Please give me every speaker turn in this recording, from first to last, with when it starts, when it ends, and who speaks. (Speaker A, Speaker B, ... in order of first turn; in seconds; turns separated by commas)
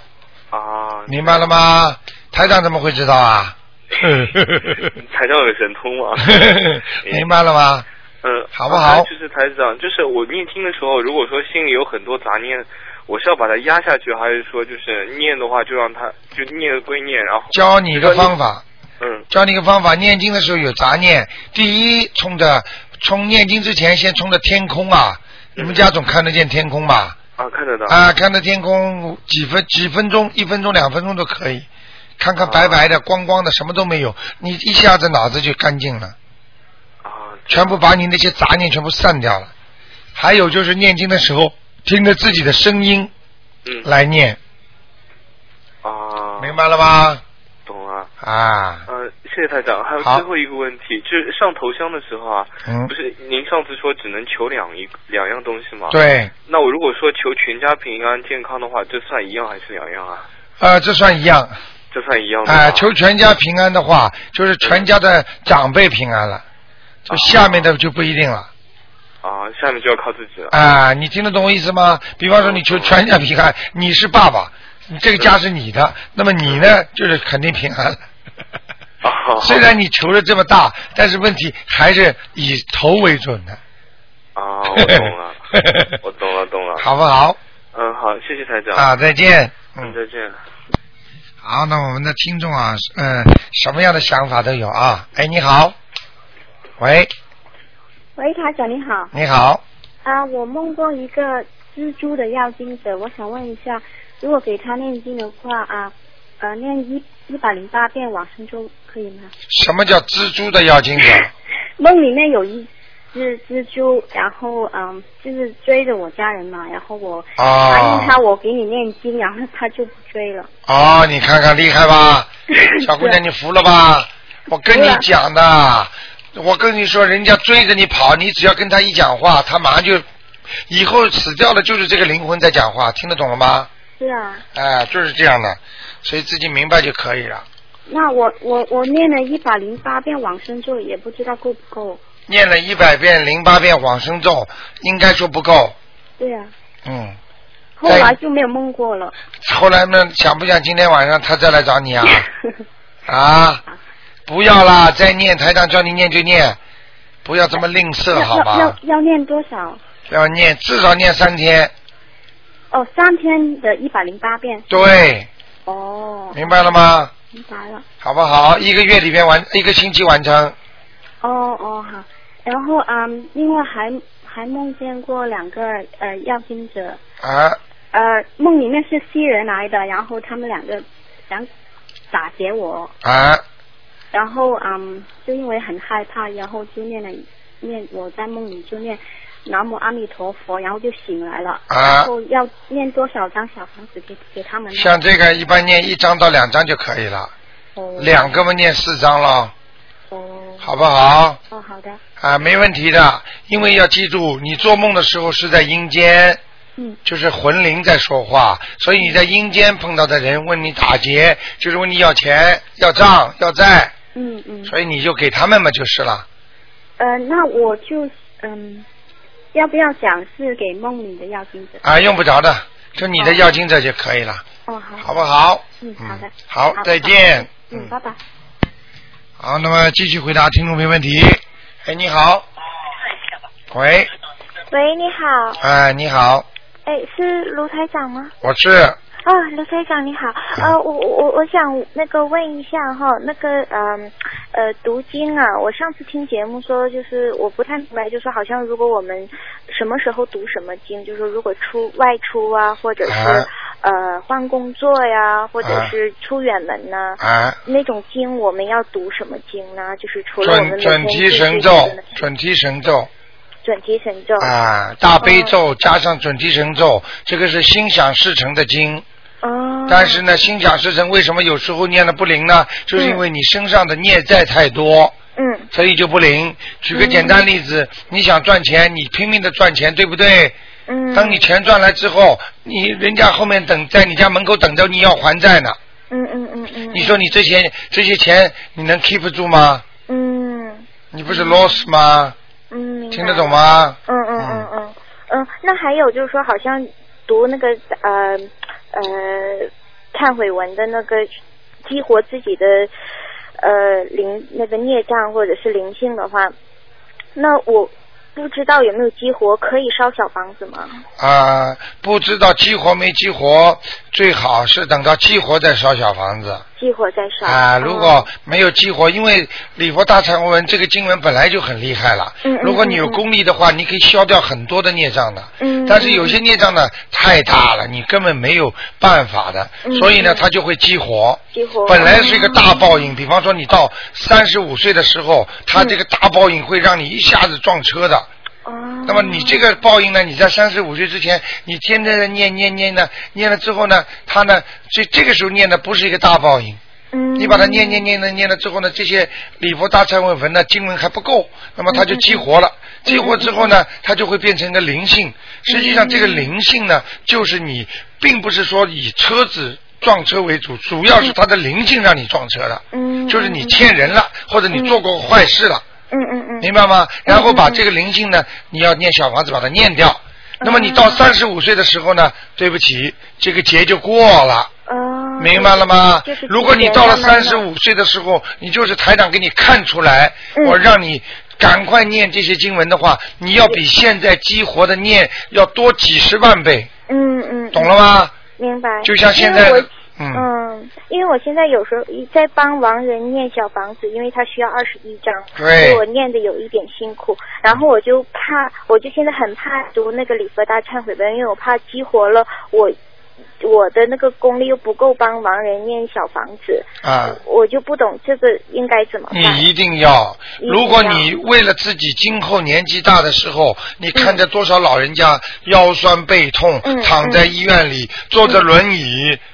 Speaker A: 0.5-1.6, Speaker B: 1.1-4.9, Speaker A: 4.0-4.3, Speaker A: 4.8-7.3, Speaker B: 6.3-7.8, Speaker A: 8.2-18.3, Speaker B: 8.5-9.1, Speaker B: 17.5-18.6, Speaker A: 19.0-19.3, Speaker B: 19.3-27.1, Speaker A: 25.6-25.9, Speaker A: 27.4-28.0, Speaker B: 27.9-31.7, Speaker B: 32.2-36.1, Speaker A: 32.4-32.9, Speaker A: 37.0-37.8, Speaker B: 37.5-39.5, Speaker B: 40.1-43.1, Speaker A: 43.6-43.9, Speaker B: 43.8-44.4, Speaker A: 45.8-46.6, Speaker B: 46.4-47.2, Speaker A: 47.6-48.1, Speaker B: 48.2-48.9, Speaker A: 48.9-60.3, Speaker B: 52.6-52.9, Speaker B: 55.9-56.3, Speaker B: 60.6-61.5, Speaker A: 61.9-62.9, Speaker B: 62.5-66.4, Speaker A: 64.6-64.9, Speaker A: 67.1-67.7, Speaker B: 67.1-68.5, Speaker A: 69.2-70.5, Speaker B: 70.5-78.0, Speaker A: 72.3-73.0, Speaker A: 76.5-76.7, Speaker A: 79.0-79.7, Speaker B: 79.4-83.6, Speaker A: 84.3-85.4, Speaker B: 84.7-85.0, Speaker B: 85.5-85.9, Speaker A: 86.0-86.9, Speaker B: 86.8-87.4, Speaker A: 87.7-89.0, Speaker B: 88.7-89.9, Speaker A: 89.8-90.4, Speaker B: 91.4-95.7, Speaker B: 96.8-97.1, Speaker C: 98.2-99.1, Speaker B: 99.1-99.6, Speaker C: 100.0-109.3, Speaker B: 109.5-111.3, Speaker C: 111.8-120.5, Speaker B: 117.4-118.2, Speaker B: 120.7-130.0, Speaker C: 122.5-123.2, Speaker C: 124.7-125.0, Speaker B: 130.7-133.7, Speaker C: 134.0-134.4, Speaker B: 134.5-137.4, Speaker C: 137.9-142.0, Speaker B: 142.3-145.7, Speaker C: 146.2-146.5, Speaker B: 146.8-147.2, Speaker C: 147.8-149.1, Speaker B: 147.8-148.2, Speaker B: 149.4-152.2, Speaker B: 153.1-153.6, Speaker B: 154.3-156.6, Speaker B: 157.2-158.8, Speaker C: 158.1-159.8, Speaker B: 160.1-161.7, Speaker C: 162.7-164.9, Speaker B: 164.7-165.3, Speaker C: 165.7-166.6, Speaker B: 166.3-167.1, Speaker C: 167.3-167.8, Speaker B: 168.0-170.5, Speaker C: 171.2-177.0, Speaker B: 177.2-177.6, Speaker C: 177.9-181.5, Speaker C: 182.1-182.9, Speaker B: 183.0-183.4, Speaker C: 184.1-195.0, Speaker B: 191.7-192.1, Speaker B: 194.7-197.3, Speaker C: 197.8-198.4, Speaker B: 198.0-199.5, Speaker C: 200.1-200.7, Speaker B: 200.6-201.4, Speaker C: 201.5-202.0, Speaker B: 202.2-206.4, Speaker B: 207.0-213.9, Speaker C: 214.1-214.7, Speaker B: 214.7-216.2, Speaker C: 217.0-218.8, Speaker C: 219.5-221.8, Speaker B: 221.8-224.4, Speaker C: 223.1-223.5, Speaker C: 224.7-225.1, Speaker B: 225.0-227.9, Speaker C: 225.8-228.2, Speaker B: 229.4-232.4, Speaker B: 233.7-234.1, Speaker D: 234.7-235.6, Speaker B: 235.6-236.4, Speaker D: 236.8-238.3, Speaker B: 238.4-239.0, Speaker D: 239.2-262.0, Speaker B: 253.0-253.5, Speaker B: 255.6-255.9, Speaker B: 257.2-257.6, Speaker B: 260.4-263.1, Speaker D: 263.6-264.5, Speaker B: 264.4-269.0, Speaker D: 265.2-265.5, Speaker D: 269.4-270.2, Speaker B: 269.9-275.1, Speaker D: 272.9-273.2, Speaker D: 275.4-275.7, Speaker B: 275.7-280.6, Speaker D: 276.9-277.4, Speaker D: 280.9-281.4, Speaker B: 281.1-285.8, Speaker D: 286.1-287.2, Speaker B: 286.9-289.8, Speaker D: 290.1-291.8, Speaker B: 291.1-292.3, Speaker D: 292.7-301.3, Speaker B: 293.1-294.7, Speaker D: 301.8-302.9, Speaker D: 303.6-306.5, Speaker D: 307.4-311.0, Speaker B: 311.2-316.6, Speaker D: 316.8-318.3, Speaker B: 317.4-338.3, Speaker D: 322.4-323.2, Speaker D: 325.6-326.4, Speaker D: 329.8-330.4, Speaker D: 331.5-333.1, Speaker D: 335.7-336.0, Speaker D: 338.6-339.7, Speaker B: 339.1-346.8, Speaker D: 347.1-348.1, Speaker B: 347.4-365.8, Speaker D: 351.9-352.4, Speaker D: 353.0-353.8, Speaker D: 355.7-356.5, Speaker D: 362.9-363.9, Speaker D: 364.7-365.0, Speaker D: 366.1-366.7, Speaker B: 366.6-374.7, Speaker D: 367.2-367.8, Speaker D: 370.6-371.2, Speaker D: 374.9-377.6, Speaker B: 375.4-386.9, Speaker D: 380.5-380.8, Speaker D: 387.1-387.9, Speaker B: 387.7-388.3, Speaker D: 388.5-402.9, Speaker B: 389.0-390.4, Speaker B: 395.5-396.0, Speaker D: 403.6-409.7, Speaker B: 407.0-407.4, Speaker B: 409.3-419.4, Speaker D: 410.6-411.3, Speaker D: 414.1-414.4, Speaker D: 416.8-417.5